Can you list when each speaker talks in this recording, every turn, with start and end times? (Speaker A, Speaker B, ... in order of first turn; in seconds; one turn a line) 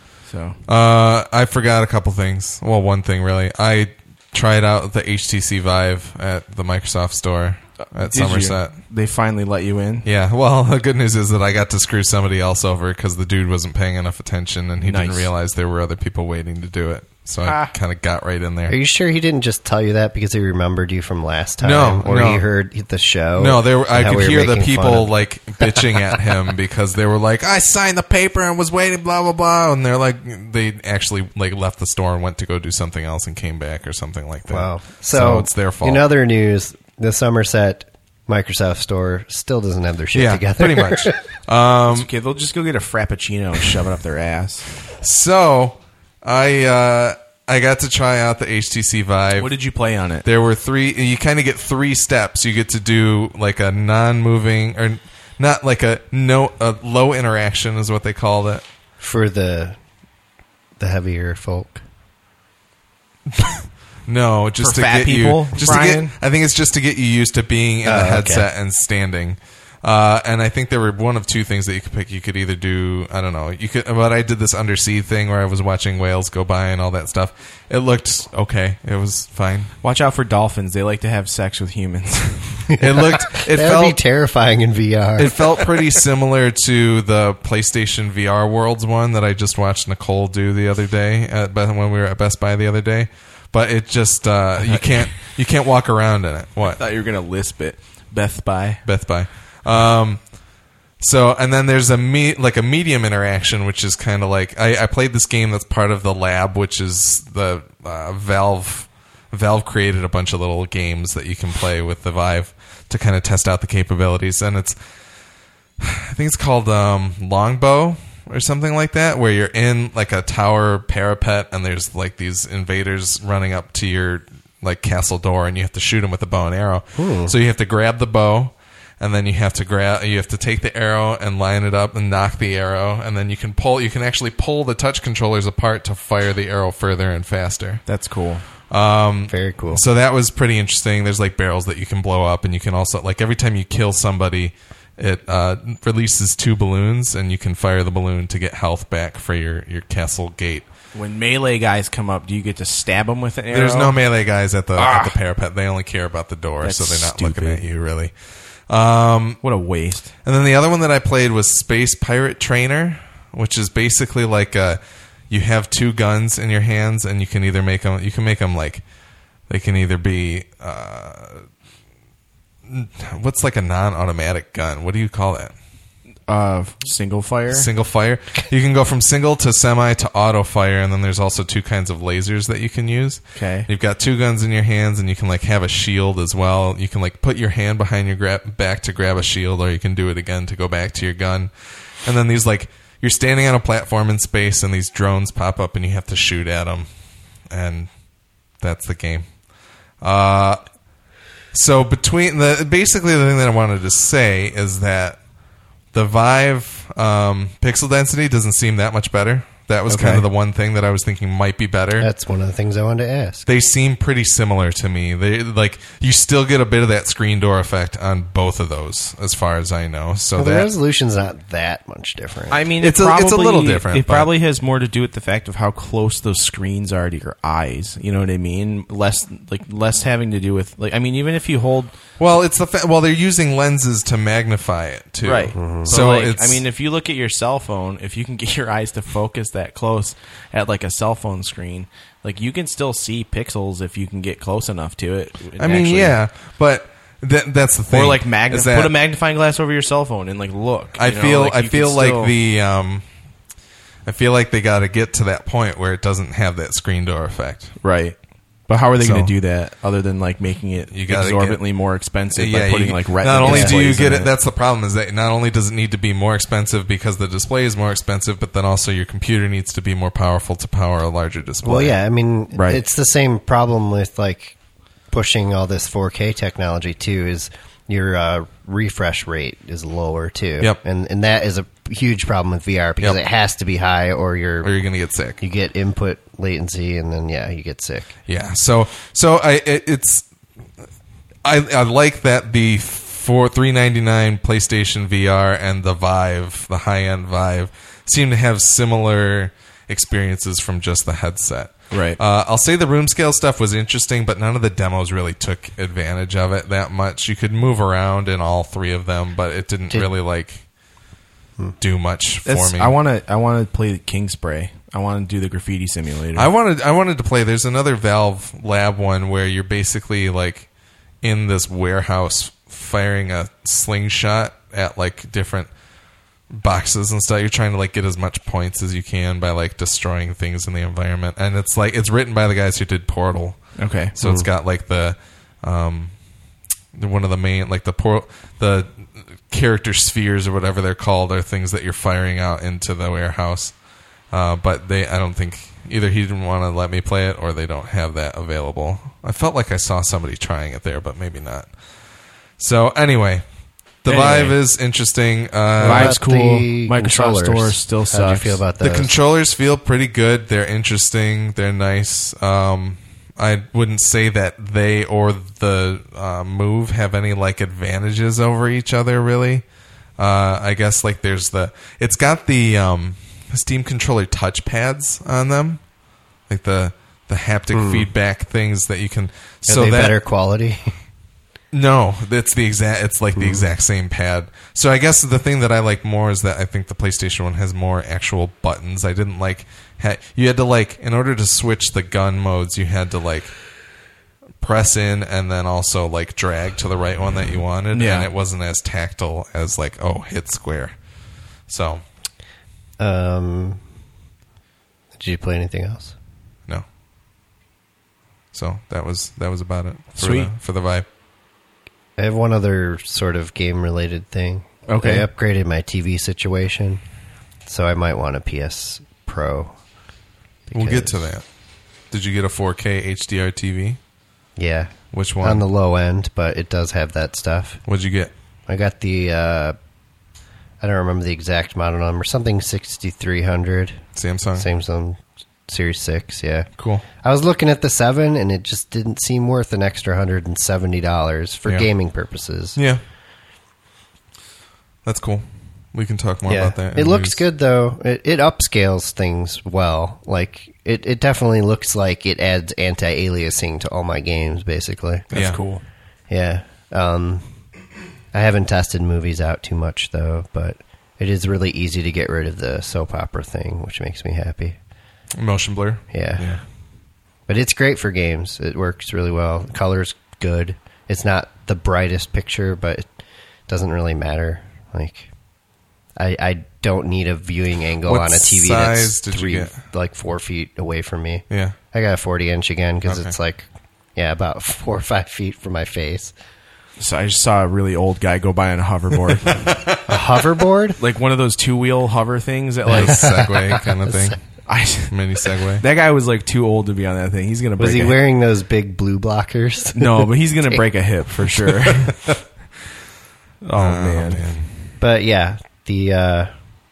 Speaker A: 0.2-0.6
Speaker B: 0.7-8.7
Speaker A: 7.8-10.1
Speaker B: 10.0-18.7
Speaker A: 14.8-15.3
Speaker A: 17.4-17.7
Speaker C: 18.7-26.1
Speaker B: 21.6-22.4
Speaker B: 23.4-36.0
Speaker C: 34.5-41.1
Speaker B: 40.1-42.1
Speaker A: 41.9-44.7
Speaker B: 44.9-49.5
Speaker A: 49.4-50.2
Speaker B: 50.2-58.6
Speaker C: 59.0-59.8
Speaker C: 60.8-61.8
Speaker B: 63.3-79.7
Speaker A: 64.6-66.1
Speaker C: 67.8-68.5
Speaker A: 79.8-82.7
Speaker B: 82.8-84.0
Speaker C: 82.8-85.7
Speaker B: 85.2-96.8
Speaker A: 94.6-95.1
Speaker A: 96.7-98.8
Speaker B: 98.8-100.3
Speaker B: 101.0-114.8
Speaker B: 115.8-137.8
Speaker C: 127.0-127.3
Speaker A: 137.9-138.4
Speaker B: 138.7-150.7
Speaker C: 139.3-139.8
Speaker A: 150.9-154.0
Speaker B: 153.5-158.1
Speaker A: 154.8-155.1
Speaker A: 156.6-157.6
Speaker B: 158.7-159.4
Speaker A: 159.4-160.1
Speaker B: 160.2-168.8
Speaker B: 169.5-171.4
Speaker B: 172.7-175.5
Speaker A: 176.3-177.7
Speaker B: 177.5-191.5
Speaker A: 183.3-183.7
Speaker B: 192.0-196.9
Speaker B: 197.5-197.9
Speaker B: 198.6-199.2
Speaker B: 200.0-200.6
Speaker B: 201.5-205.2
Speaker B: 205.9-212.1
Speaker A: 209.9-210.2
Speaker C: 212.0-213.5
Speaker B: 213.4-220.7
Speaker C: 220.3-222.6
Speaker A: 222.5-231.9
Speaker B: 222.8-224.3
Speaker B: 232.2-236.6
Speaker A: 235.2-246.2
Speaker C: 235.6-235.9
Speaker B: 245.6-248.9
Speaker A: 247.9-252.3
Speaker B: 251.0-253.0
Speaker B: 254.0-257.7
Speaker A: 257.8-264.3
Speaker B: 259.0-259.3
Speaker B: 260.9-261.6
Speaker B: 262.3-271.9
Speaker C: 263.4-263.8
Speaker C: 271.6-274.6
Speaker A: 272.5-272.8
Speaker C: 275.1-284.7
Speaker B: 284.6-285.4
Speaker C: 285.4-288.1
Speaker B: 288.3-290.3
Speaker B: 291.4-310.6
Speaker A: 301.9-302.2
Speaker B: 311.8-312.9
Speaker A: 312.4-316.5
Speaker B: 316.4-320.7
Speaker B: 321.2-325.7
Speaker B: 326.5-336.1
Speaker A: 333.8-334.1
Speaker C: 334.2-334.5
Speaker B: 336.9-343.7
Speaker B: 344.3-351.7
Speaker B: 352.6-353.4
Speaker B: 354.0-356.1
Speaker A: 354.1-354.6
Speaker C: 355.8-359.1
Speaker A: 355.8-358.6
Speaker B: 358.8-369.6
Speaker B: 370.2-375.8
Speaker B: 376.5-380.1
Speaker C: 377.7-378.1
Speaker C: 379.7-380.9
Speaker B: 381.7-393.5
Speaker C: 383.3-383.6
Speaker B: 394.6-400.9
Speaker A: 397.9-398.3
Speaker B: 401.7-402.0
Speaker C: 403.0-403.8
Speaker C: 405.1-406.1
Speaker B: 408.5-411.1
Speaker A: 410.2-410.5
Speaker C: 412.2-417.0
Speaker A: 414.9-415.3
Speaker C: 417.6-419.7
Speaker C: 420.7-421.3
Speaker B: 420.7-421.4
Speaker B: 422.1-424.0
Speaker C: 424.6-427.8
Speaker B: 425.1-425.6
Speaker B: 427.9-428.3
Speaker C: 428.7-429.8
Speaker C: 430.8-434.0
Speaker B: 434.1-434.7
Speaker C: 434.6-436.7
Speaker B: 436.8-437.0
Speaker C: 437.2-442.8
Speaker B: 442.8-443.0
Speaker B: 445.0-447.4
Speaker C: 446.5-455.3
Speaker B: 455.3-455.6
Speaker A: 455.3-455.8
Speaker C: 456.3-457.4
Speaker C: 458.3-464.8
Speaker B: 465.4-466.6
Speaker C: 466.1-466.5
Speaker C: 467.5-473.1
Speaker C: 473.7-475.3
Speaker C: 476.2-486.3
Speaker B: 478.0-479.8
Speaker B: 481.5-481.8
Speaker B: 483.1-483.3
Speaker A: 487.0-489.7
Speaker B: 489.6-490.0
Speaker C: 490.1-491.0
Speaker A: 491.0-493.3
Speaker C: 492.9-494.4
Speaker B: 492.9-494.4
Speaker A: 494.7-495.1
Speaker B: 495.1-495.8
Speaker A: 495.8-498.2
Speaker C: 497.8-500.8
Speaker A: 499.9-502.1
Speaker A: 503.6-504.4
Speaker B: 503.8-504.7
Speaker C: 505.0-506.5